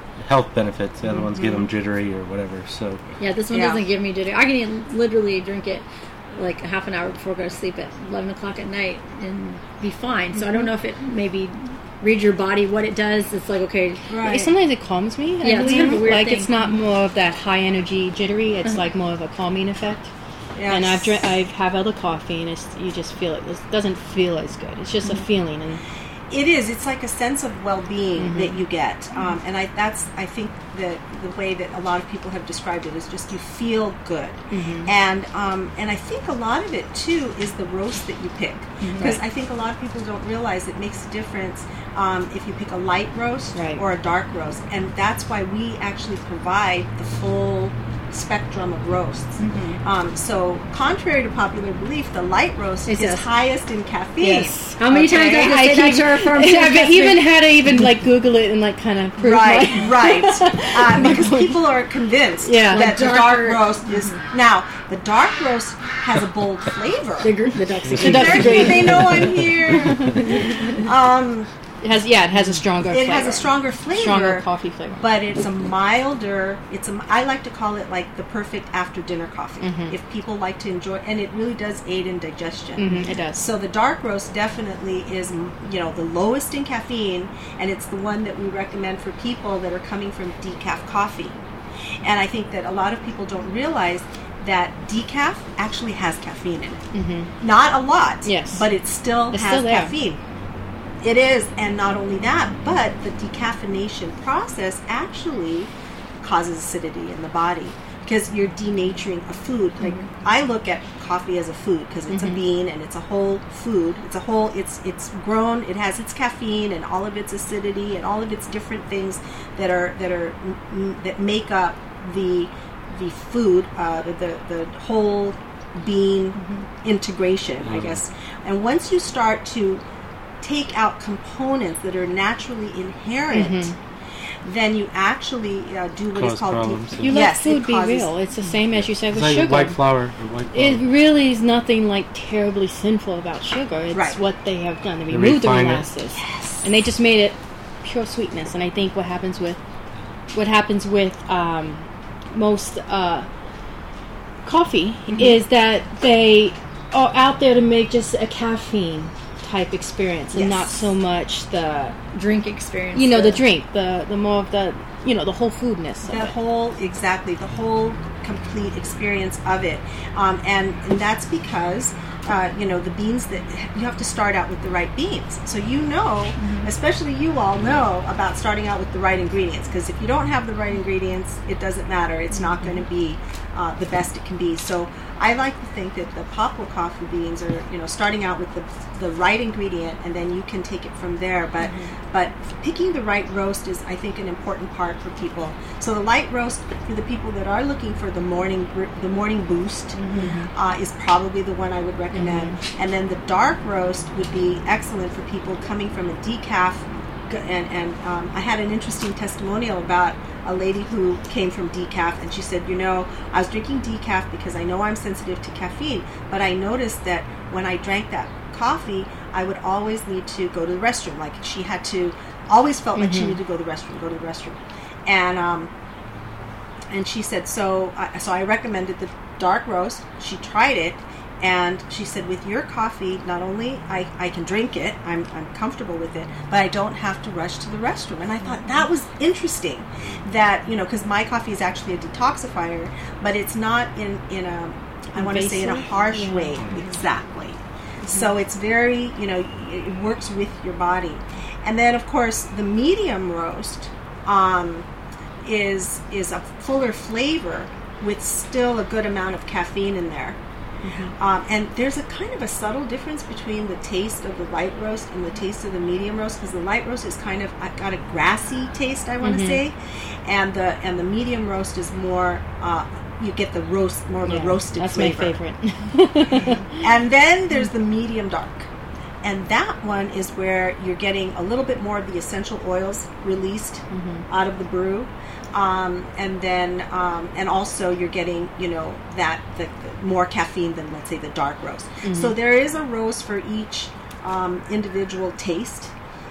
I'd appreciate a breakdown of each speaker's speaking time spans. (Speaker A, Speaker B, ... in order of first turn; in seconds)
Speaker A: 0.2-3.0, 67.9-70.2, 127.6-128.0, 136.1-137.3, 138.7-140.9, 145.1-145.9
Speaker B: 1.4-1.7, 3.5-3.8, 14.1-14.6, 15.6-16.0, 20.6-21.2, 26.3-55.6, 59.2-67.3, 68.0-71.5, 72.8-74.5, 75.0-91.4, 92.0-96.8, 97.4-100.2, 101.0-129.8, 130.4-133.7, 134.4-138.1, 143.9-144.2, 146.2-146.7, 160.3-160.9, 166.1-225.7, 226.9-254.9, 255.4-260.4, 261.2-275.4, 276.4-278.7, 279.2-295.9
Speaker C: 3.2-14.1, 15.4-16.7, 38.8-39.2, 49.4-49.8, 52.9-53.3, 54.8-57.3, 62.6-64.2, 67.2-69.1, 126.4-126.7, 162.1-163.4, 176.4-176.7
Speaker D: 14.2-20.1, 20.7-25.8, 28.2-28.6, 34.5-34.9, 38.9-39.2, 43.5-43.8, 54.2-61.6, 62.4-63.0, 68.0-70.6, 71.8-75.1, 79.6-80.0, 82.8-83.5, 96.9-97.3, 98.2-98.7, 99.3-99.9, 112.1-112.4, 133.3-133.8, 137.0-139.8, 140.5-149.6, 150.3-153.3, 154.4-162.0, 162.9-166.3, 191.6-191.9, 200.1-200.5, 202.1-202.6, 223.0-223.4, 245.2-246.9, 260.8-261.1, 269.2-269.6, 274.2-276.7, 283.9-284.3, 292.0-292.4